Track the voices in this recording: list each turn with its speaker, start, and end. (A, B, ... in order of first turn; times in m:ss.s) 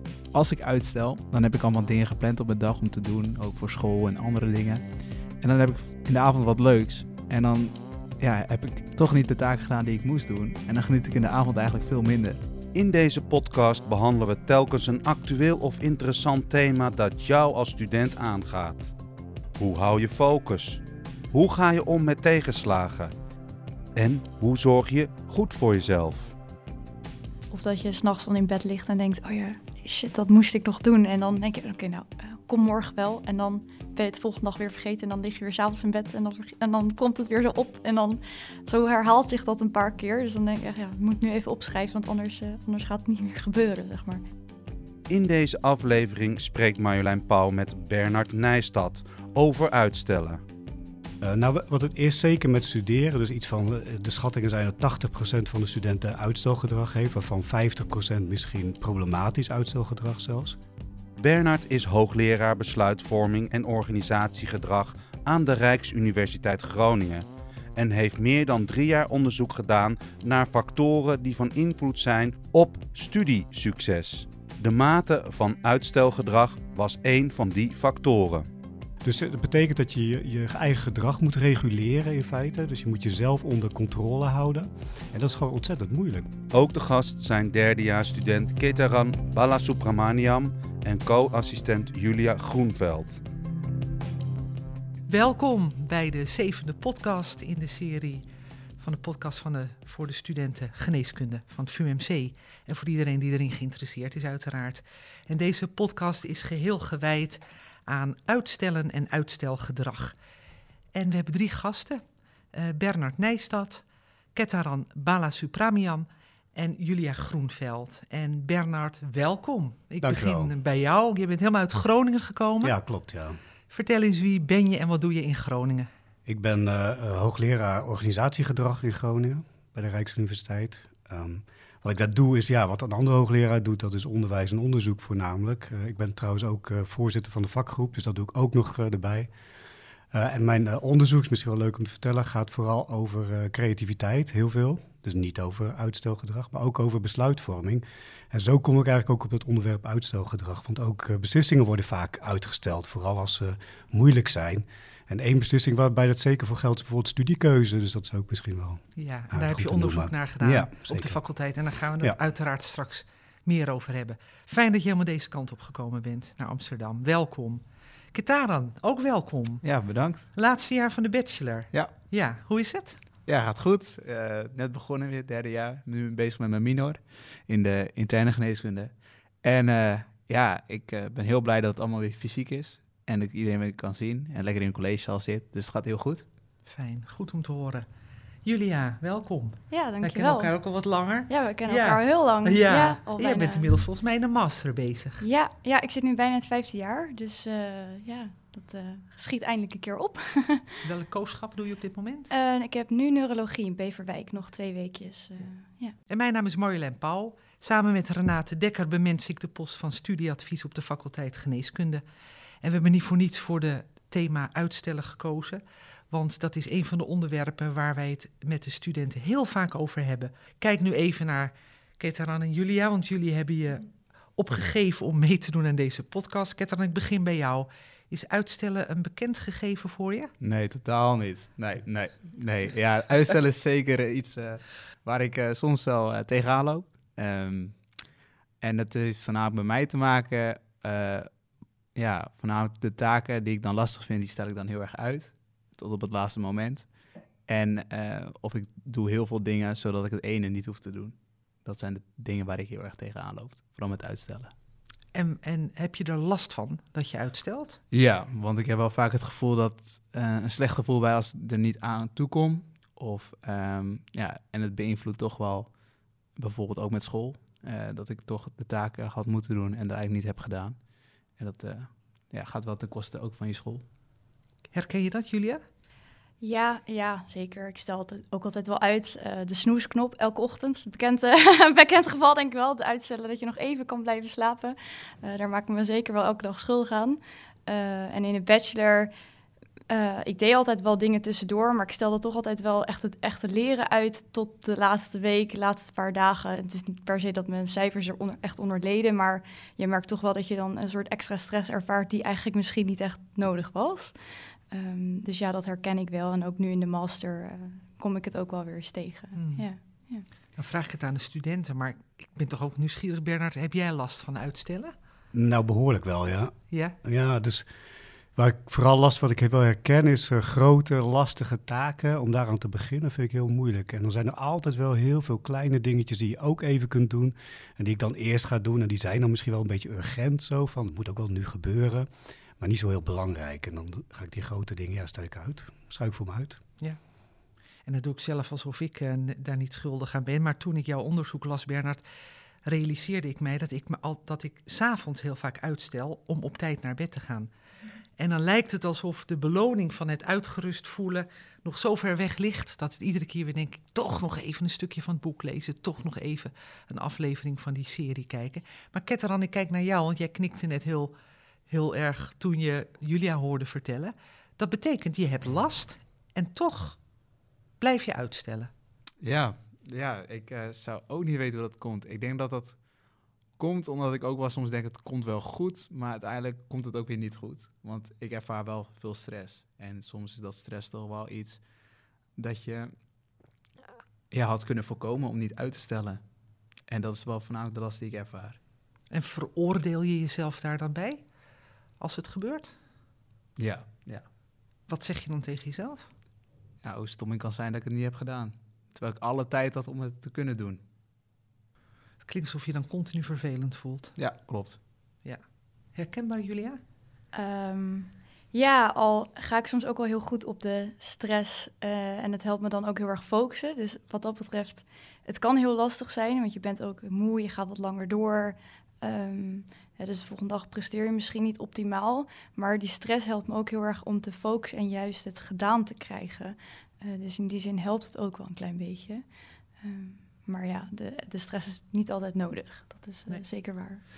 0:00.3-0:04.8 A
0:05.4-0:12.4 A
0:12.7-0:18.9 B
0:19.6-0:23.1 B
0:24.0-0:26.3 B
0:27.5-0:44.2 C
0:45.1-0:50.4 B
0:51.2-1:00.6 D
1:01.2-1:18.5 B
1:19.0-1:26.3 D
1:26.5-1:33.2 B
1:35.1-1:38.2 E
1:38.8-1:50.1 E
1:50.9-1:52.0 E
1:52.5-1:53.8 E
1:54.3-2:02.7 E
2:00.0-2:00.5 D
2:02.6-2:03.4 D
2:03.7-2:05.9 E
2:06.2-2:19.3 D
2:20.1-2:41.2 D
2:39.0-2:47.6 E
2:48.1-2:49.7 E
2:49.6-2:50.3 A
2:50.3-2:53.0 E
2:53.3-2:58.9 A
2:59.4-3:06.2 A
3:06.6-3:07.8 E
3:08.4-3:15.2 E
3:09.7-3:10.5 C
3:11.3-3:13.7 C
3:15.2-3:20.8 C
3:20.8-3:22.3 E
3:22.3-3:25.9 C
3:26.1-3:32.0 E
3:32.6-3:50.3 E
3:50.4-3:57.8 A
3:58.6-4:01.3 A
4:01.9-4:06.9 A
4:07.5-4:14.5 A
4:15.1-4:17.8 E
4:17.9-4:25.7 A
4:26.3-4:30.8 A
4:31.4-4:33.8 A
4:34.7-4:35.6 E
4:36.4-4:49.1 C
4:49.9-5:04.1 C
5:04.7-5:10.2 C
5:09.3-5:09.7 E
5:10.6-5:14.9 E
5:15.3-5:17.7 D
5:16.7-5:17.0 E
5:18.4-5:32.1 D
5:32.6-5:36.6 D
5:37.8-5:42.0 E
5:42.6-5:47.5 E
5:48.2-6:01.1 E
6:01.7-6:07.0 E
6:07.8-6:08.7 E
6:09.2-6:12.8 A
6:13.6-6:21.6 A
6:22.3-6:23.0 A
6:24.3-6:26.2 A
6:26.9-6:28.6 A
6:29.1-6:31.2 E
6:32.0-6:32.7 E
6:33.6-6:34.2 A
6:34.9-6:36.1 E
6:36.8-6:40.8 A
6:42.2-6:44.1 E
6:44.2-6:44.8 A
6:45.9-6:46.8 E
6:47.3-7:09.2 C
7:09.8-7:14.0 C